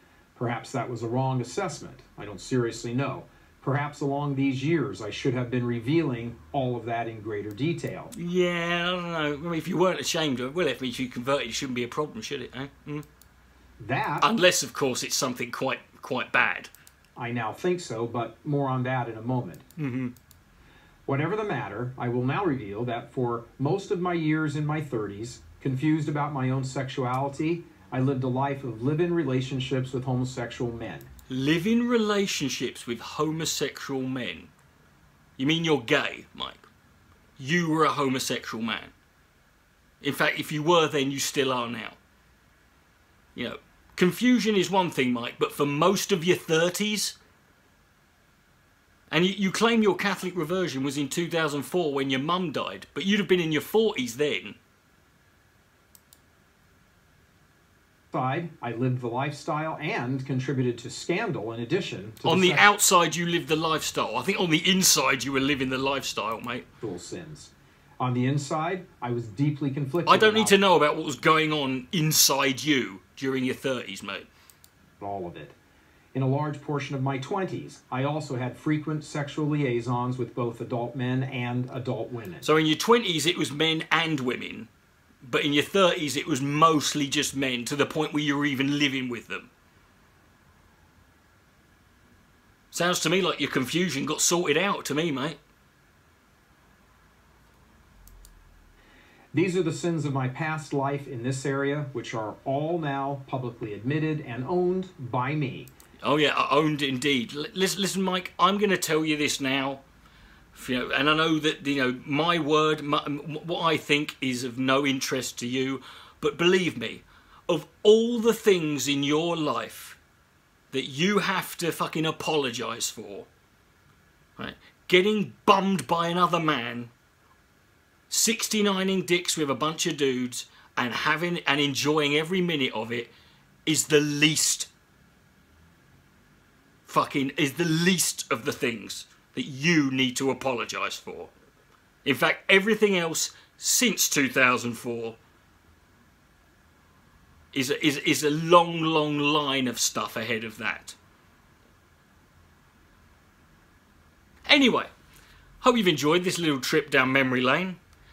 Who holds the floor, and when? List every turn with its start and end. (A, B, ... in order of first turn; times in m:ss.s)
0:00.3-0:08.1 A
0:08.1-0:13.0 B
0:13.8-0:14.3 A
0:14.2-0:16.7 B
0:17.2-0:19.6 A
0:19.8-0:20.1 B
0:21.0-0:31.1 A
0:31.3-0:34.5 B
0:35.4-0:36.7 B
0:37.4-0:38.9 B
0:40.0-0:42.0 B
0:43.4-0:47.2 B
0:49.1-0:54.6 B
0:58.1-1:02.7 A
1:02.2-1:06.6 B
1:06.8-1:10.6 A
1:10.0-1:14.3 B
1:15.0-1:15.5 A
1:16.1-1:22.4 A
1:22.4-1:24.7 B
1:25.2-1:29.5 B
1:32.7-1:35.4 B
1:39.3-1:45.7 A
1:46.0-1:49.8 B
1:50.5-2:00.0 B
2:00.7-2:03.3 B
2:04.4-2:06.9 B
2:08.1-2:13.1 B
2:13.6-2:14.7 B
2:16.8-2:21.3 B
2:22.0-2:25.2 B
2:27.5-2:31.0 B
2:34.4-2:34.9 B
2:35.6-2:37.8 B